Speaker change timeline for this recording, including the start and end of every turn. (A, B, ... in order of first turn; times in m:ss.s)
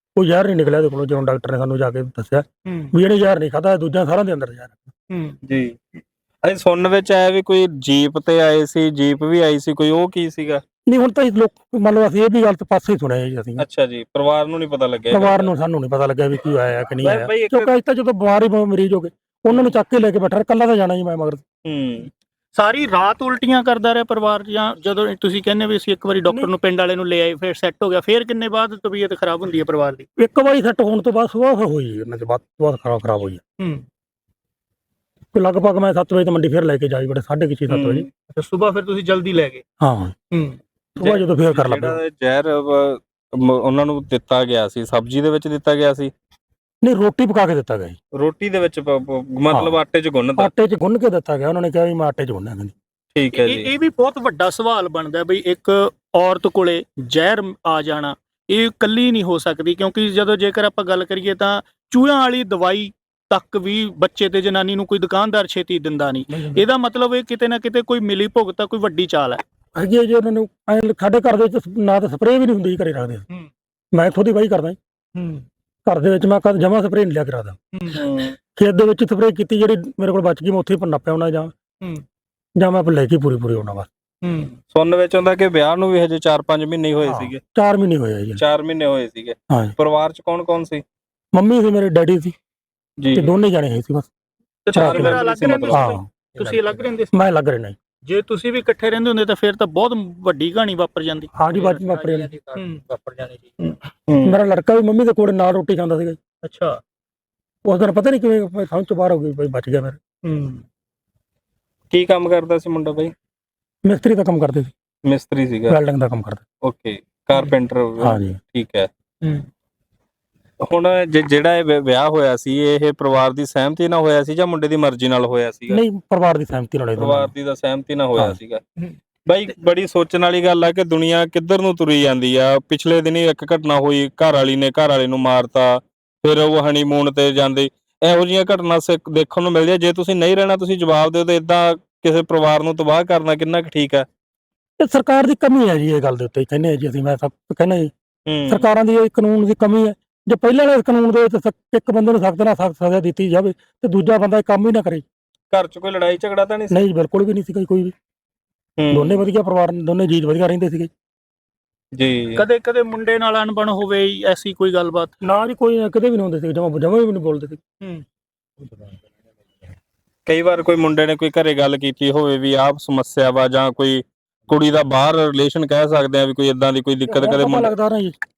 0:00.2-0:04.8 A
0:02.6-0:02.9 B
0:05.1-0:05.4 B
0:05.4-0:05.8 C
0:06.4-0:10.6 C
0:10.9-0:13.6 A
0:13.6-0:15.5 C
0:15.1-0:21.4 A
0:17.0-0:17.7 C
0:21.7-0:22.1 C
0:22.6-0:30.1 B
0:30.2-0:33.4 A
0:35.3-0:38.1 A
0:37.7-0:38.1 C
0:38.3-0:39.6 B
0:39.8-0:40.1 A
0:40.3-0:40.6 B
0:41.0-0:42.0 A
0:41.0-0:46.1 C
0:46.8-0:48.0 A
0:48.2-0:50.5 C
0:49.5-0:49.8 A
0:50.4-0:52.7 A
0:53.1-0:53.7 C
0:53.3-1:09.4 B
1:06.3-1:06.6 A
1:09.8-1:13.2 A
1:13.9-1:14.8 A
1:15.2-1:15.4 B
1:15.9-1:17.6 A
1:18.0-1:18.4 C
1:18.6-1:21.6 A
1:22.6-1:23.9 A
1:24.2-1:24.6 B
1:24.7-1:27.4 C
1:27.0-1:28.4 A
1:28.4-1:30.8 C
1:29.5-1:29.8 A
1:31.4-1:32.4 A
1:33.0-1:33.3 C
1:33.1-1:34.1 A
1:34.7-1:37.2 B
1:34.7-1:36.0 C
1:34.7-1:36.1 A
1:37.1-1:37.8 A
1:38.1-1:41.3 B
1:41.4-1:42.3 A
1:42.5-1:42.9 B
1:44.1-1:44.4 C
1:44.2-1:46.2 A
1:46.4-1:46.8 B
1:47.7-1:50.0 A
1:50.2-1:50.6 B
1:51.9-1:53.1 C
1:53.9-1:54.7 A
1:55.0-1:55.8 C
1:55.7-1:56.4 A
1:56.6-1:58.9 C
1:58.0-1:58.4 A
2:00.6-2:05.8 C
2:05.7-2:07.3 A
2:07.0-2:08.6 C
2:09.3-2:24.1 C
2:24.8-2:27.9 A
2:28.3-2:28.7 C
2:28.5-2:35.0 A
2:35.5-2:36.8 C
2:36.7-2:37.9 A
2:38.8-2:39.2 C
2:38.9-2:40.9 A
2:42.0-2:42.5 C
2:42.4-2:45.2 B
2:45.2-2:47.6 A
2:50.3-2:57.7 C
2:57.1-2:58.2 A